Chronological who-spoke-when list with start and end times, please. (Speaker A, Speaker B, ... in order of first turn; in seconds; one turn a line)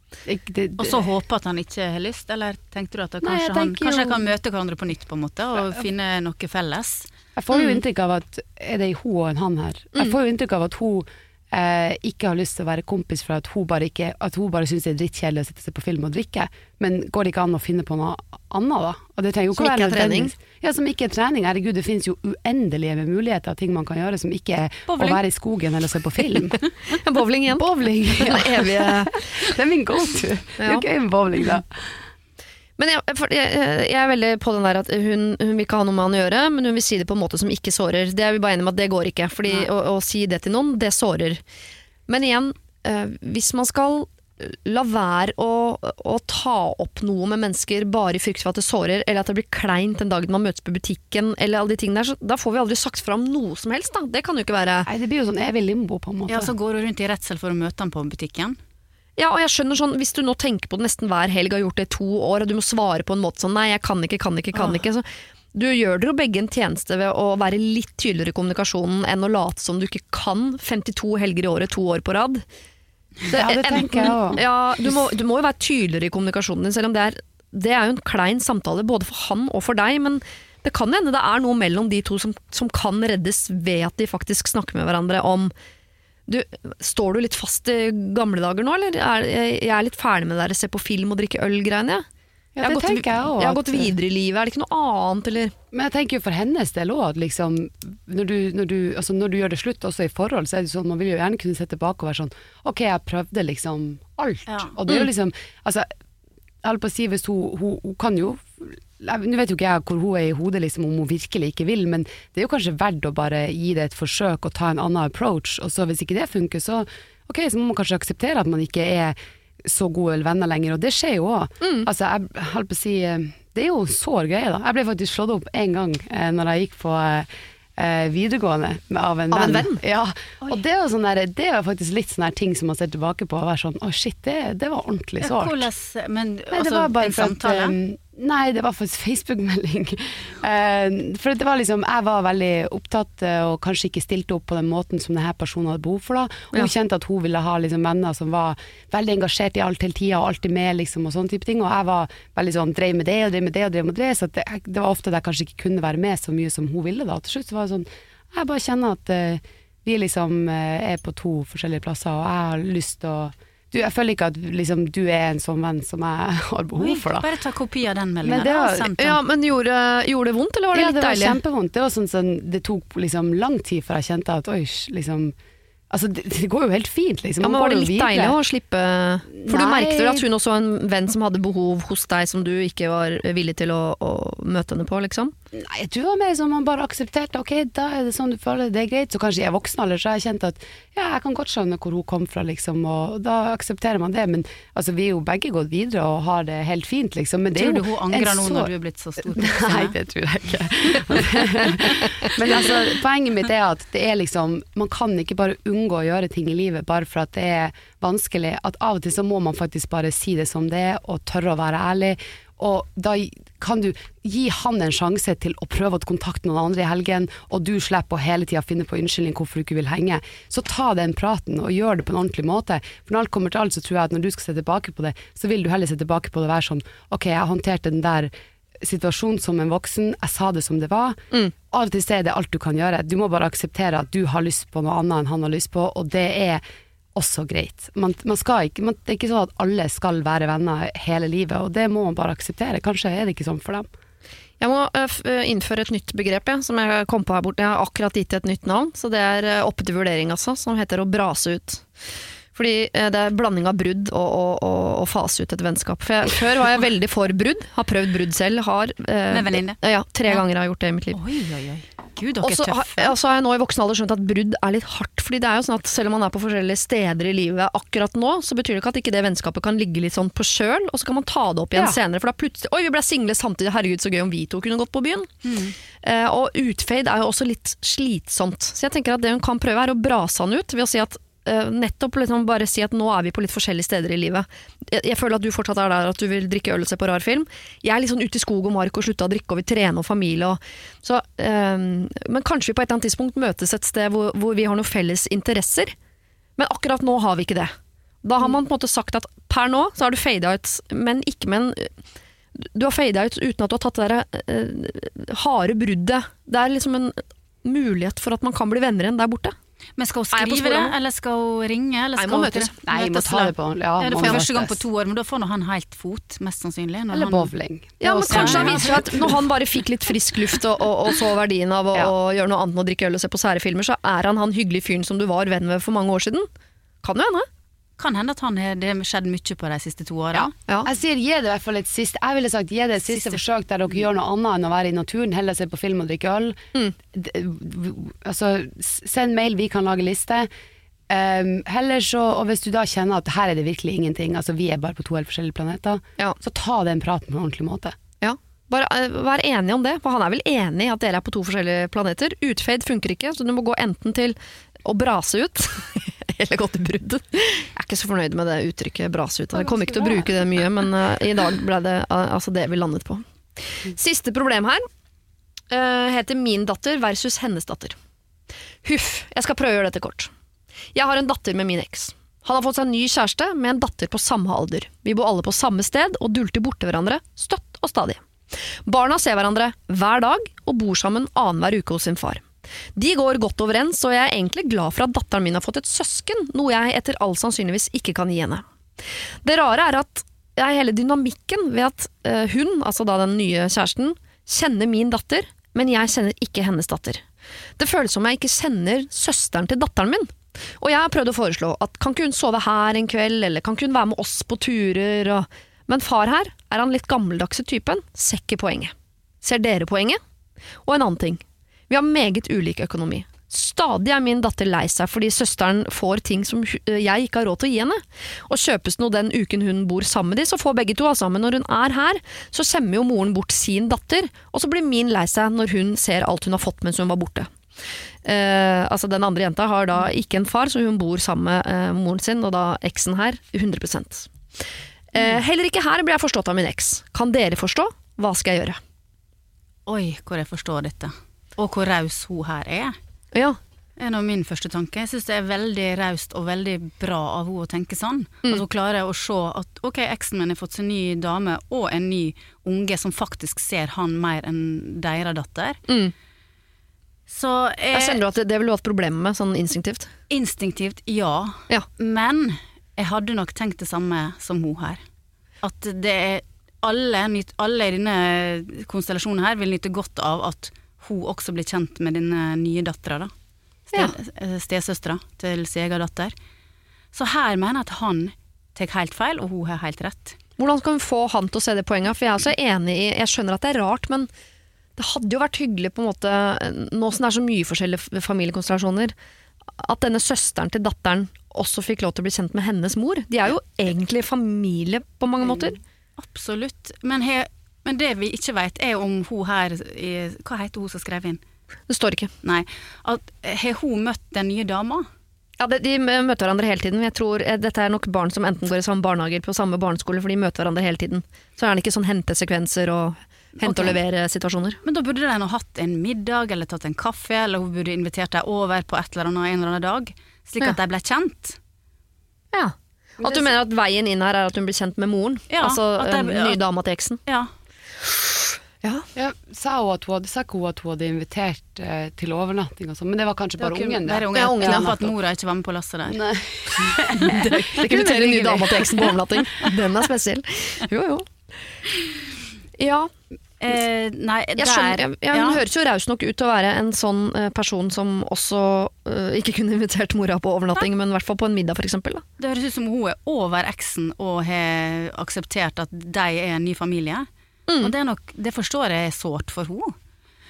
Speaker A: 0.2-1.1
Speaker B: 0.8-7.1
Speaker C: 3.2-4.2
Speaker A: 7.3-26.6
Speaker C: 19.6-20.3
Speaker B: 24.9-25.2
Speaker C: 26.9-27.6
Speaker A: 27.5-31.9
Speaker C: 28.2-29.2
Speaker C: 30.6-30.9
Speaker C: 32.8-41.4
Speaker C: 42.1-54.9
Speaker A: 54.9-56.5
Speaker B: 56.3-58.6
Speaker C: 59.2-72.4
Speaker B: 64.5-64.8
Speaker A: 73.3-74.4
Speaker C: 73.3-85.5
Speaker C: 86.3-92.0
Speaker A: 92.5-93.9
Speaker C: 92.6-95.5
Speaker A: 95.7-105.9
Speaker B: 104.5-104.7
Speaker A: 106.6-135.7
Speaker C: 121.6-121.9
Speaker C: 129.3-129.8
Speaker B: 135.2-137.8
Speaker A: 136.5-167.3
Speaker B: 166.8-169.2
Speaker A: 168.2-168.9
Speaker C: 169.0-171.4
Speaker A: 170.7-175.3
Speaker A: 175.9-178.4
Speaker C: 177.4-185.3
Speaker A: 179.3-180.2
Speaker A: 185.5-198.7
Speaker B: 197.5-199.9
Speaker A: 199.3-236.6
Speaker A: 237.1-243.9
Speaker C: 244.6-251.8
Speaker C: 252.5-261.2
Speaker B: 259.3-260.4
Speaker B: 261.1-263.1
Speaker C: 262.4-275.3
Speaker B: 275.4-275.7
Speaker C: 276.0-295.9
Speaker C: 296.6-301.9
Speaker C: 302.5-309.6
Speaker B: 310.0-317.5
Speaker C: 310.3-310.9
Speaker C: 312.2-312.7
Speaker A: 312.9-314.8
Speaker A: 317.1-319.3
Speaker C: 318.0-326.5
Speaker B: 318.3-319.4
Speaker C: 327.0-327.5
Speaker B: 328.0-330.5
Speaker A: 330.3-336.6
Speaker B: 333.1-333.4
Speaker A: 337.1-340.5
Speaker A: 341.1-347.9
Speaker C: 348.2-364.9
Speaker A: 359.5-360.3
Speaker C: 365.7-368.0
Speaker C: 368.8-370.3
Speaker C: 370.9-382.4
Speaker C: 382.9-388.6
Speaker C: 389.4-397.2
Speaker C: 397.8-410.2
Speaker C: 410.8-427.5
Speaker C: 428.2-434.3
Speaker C: 435.1-438.8
Speaker B: 439.9-443.0
Speaker C: 443.3-443.6
Speaker B: 444.0-455.8
Speaker C: 455.9-456.1
Speaker B: 457.3-458.2
Speaker C: 457.9-460.1
Speaker B: 460.3-465.0
Speaker B: 465.6-473.3
Speaker B: 473.9-476.3
Speaker B: 477.1-480.4
Speaker C: 480.6-484.3
Speaker C: 484.9-489.1
Speaker C: 489.8-495.8
Speaker B: 496.2-501.4
Speaker C: 501.9-502.3
Speaker B: 502.4-505.1
Speaker C: 505.6-514.8
Speaker B: 513.6-514.0
Speaker B: 514.8-521.6
Speaker C: 522.5-527.2
Speaker A: 523.2-523.5
Speaker B: 525.5-526.6
Speaker A: 529.1-535.1
Speaker B: 533.6-539.1
Speaker C: 534.3-534.9
Speaker A: 536.1-537.6
Speaker C: 537.2-541.8
Speaker C: 542.8-543.1
Speaker B: 543.6-545.6
Speaker C: 544.6-552.2
Speaker B: 552.4-557.3
Speaker B: 557.8-559.9